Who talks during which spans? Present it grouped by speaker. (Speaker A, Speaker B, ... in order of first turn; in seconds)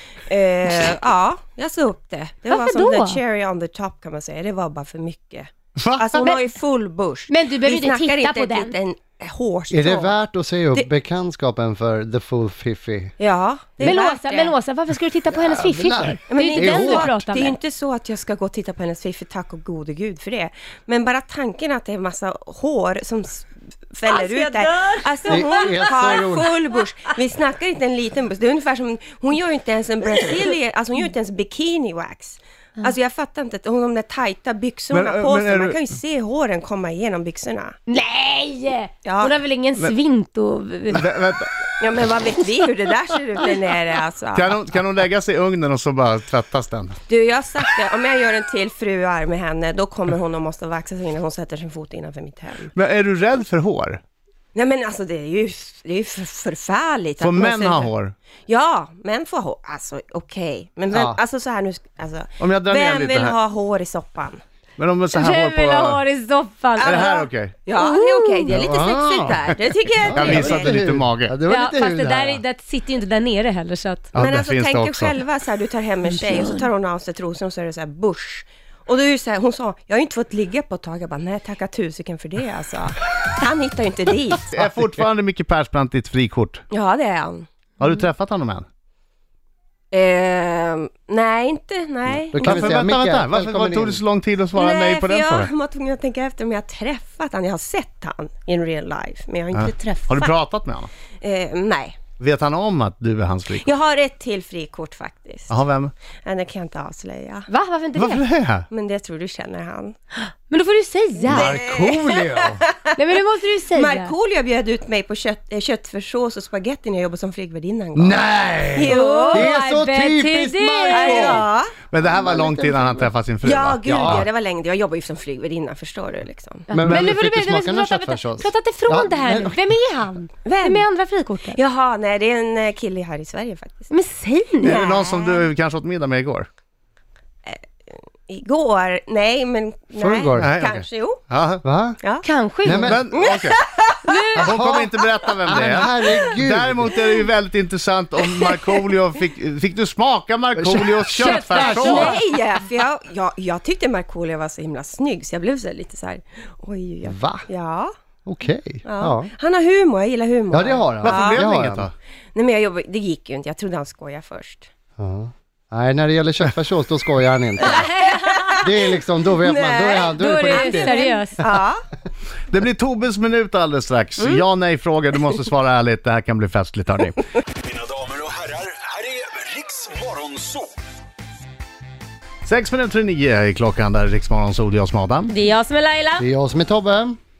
Speaker A: 0.2-10.2, 13.2-14.5, 16.3-37.8, 39.0-39.4, 41.8-44.5, 47.1-52.7, 54.5-57.9, 58.5-64.4, 66.8-70.8, 74.2-84.5, 86.7-87.5, 89.9-92.5, 94.5-100.3, 101.2-102.0, 103.5-105.5, 106.2-107.5, 108.7-110.0, 111.2-112.9, 113.7-119.5, 120.9-121.8, 123.4-126.7, 130.4-130.8, 131.5-133.9, 134.6-135.5, 138.3-141.2, 142.0-142.2, 142.9-143.9, 145.7-146.3, 151.4-157.9, 158.8-161.5, 162.3-164.7, 167.7-171.8, 174.2-174.4
Speaker B: 2.5-3.2, 7.3-8.8, 13.8-17.6, 24.1-26.1, 37.9-41.0, 65.1-67.2, 67.8-68.6, 71.4-74.2, 76.3-76.6, 107.5-108.2, 110.5-111.6, 113.0-114.1, 118.9-121.5, 126.7-131.6, 133.9-134.7, 142.2-142.9, 144.0-144.4, 151.2-152.2, 167.7-168.6, 170.2-171.4, 185.3-186.2
Speaker C: 5.8-6.3, 34.9-35.8, 40.9-41.5, 44.3-47.0, 52.7-54.0, 57.2-58.1, 62.4-63.4, 64.8-66.0, 66.8-67.7, 70.1-71.4, 74.1-75.2, 84.5-86.6, 87.8-88.7, 92.4-95.5, 99.5-100.9, 102.2-103.7, 105.5-105.9, 108.0-108.7, 121.9-124.2, 134.6-136.5, 140.4-141.6, 142.8-143.6, 144.4-152.1, 161.0-161.9, 172.5-177.2, 182.4-185.3
Speaker D: 9.7-13.1, 15.3-17.1, 25.3-26.5, 60.9-61.2, 68.5-72.4, 92.1-94.0, 111.3-112.6, 118.0-121.4, 122.0-122.9, 124.0-124.2, 126.7-129.6, 139.9-140.5, 141.6-142.0, 142.6-143.2, 144.4-144.9, 145.5-147.0, 150.6-152.1, 157.1-157.5, 158.3-159.3, 160.5-161.9, 165.0-168.0, 168.6-171.2, 186.2-187.2
Speaker E: 177.7-180.7